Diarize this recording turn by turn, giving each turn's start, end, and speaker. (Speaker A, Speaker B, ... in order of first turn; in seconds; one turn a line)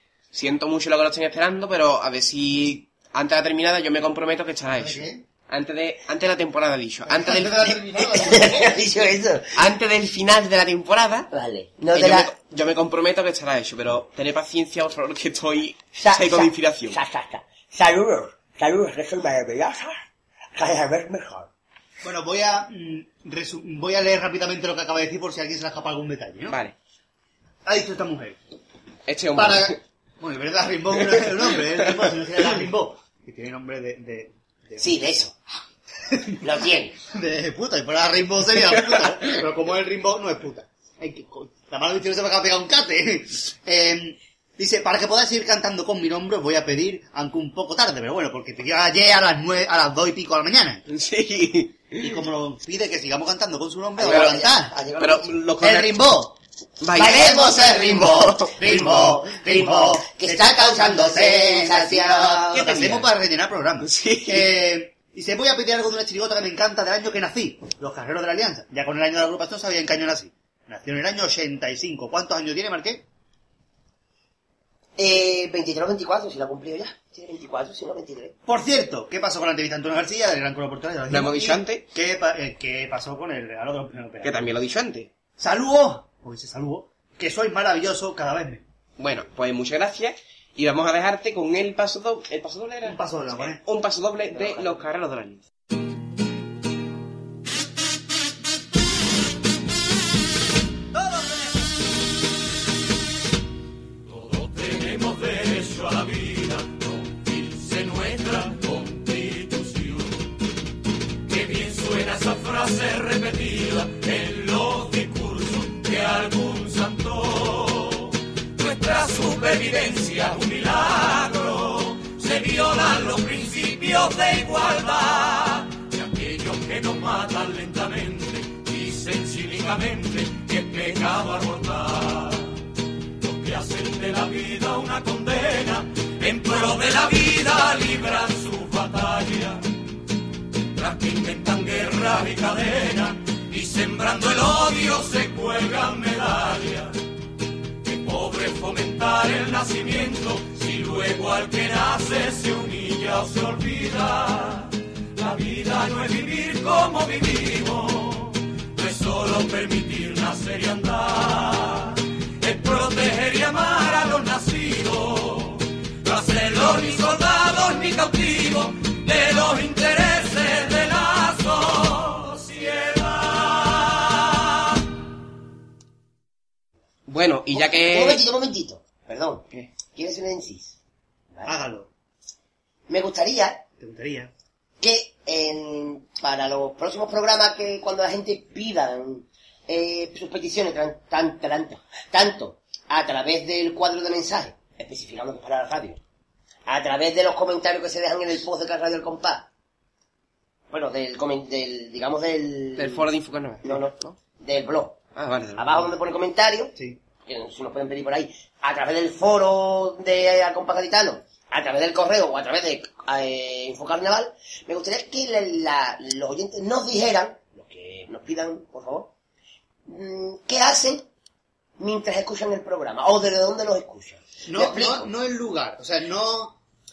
Speaker A: 0.3-7.7
Speaker B: 4.7-5.2
Speaker B: 7.1-8.8
Speaker C: 8.2-9.5
Speaker A: 9.6-11.3
Speaker C: 11.3-12.3
Speaker A: 11.9-17.0
Speaker D: 15.9-20.0
Speaker D: 20.6-21.5
Speaker B: 22.0-26.6
Speaker A: 26.5-26.8
Speaker B: 27.7-28.4
Speaker A: 29.1-29.8
Speaker B: 29.4-35.0
Speaker C: 34.8-35.3
Speaker B: 36.1-36.4
Speaker C: 36.4-36.9
Speaker B: 37.1-50.8
Speaker A: 50.9-52.2
Speaker B: 52.0-54.8
Speaker C: 54.0-55.2
Speaker A: 54.0-54.4
Speaker A: 55.0-56.0
Speaker B: 55.6-56.4
Speaker A: 56.8-58.6
Speaker B: 57.0-73.0
Speaker C: 57.0-62.5
Speaker A: 62.5-63.1
Speaker A: 63.8-64.5
Speaker C: 75.0-78.3
Speaker B: 78.5-84.5
Speaker A: 81.1-81.8
Speaker A: 84.2-85.1
Speaker B: 85.4-88.7
Speaker A: 89.0-95.4
Speaker B: 92.8-93.6
Speaker E: 104.1-110.3
Speaker E: 111.3-132.6
Speaker E: 133.2-139.6
Speaker E: 140.7-147.0
Speaker E: 147.8-174.5
Speaker A: 177.1-178.2
Speaker C: 177.5-180.8
Speaker B: 181.5-181.9
Speaker C: 182.9-183.6
Speaker B: 183.8-184.3
Speaker C: 184.8-196.0
Speaker C: 196.7-199.5
Speaker C: 200.7-203.1
Speaker A: 202.8-204.2
Speaker C: 203.6-205.0
Speaker A: 205.2-205.9
Speaker C: 205.6-206.7
Speaker C: 207.3-219.1
Speaker C: 219.9-221.1
Speaker C: 221.8-225.1
Speaker B: 224.5-226.6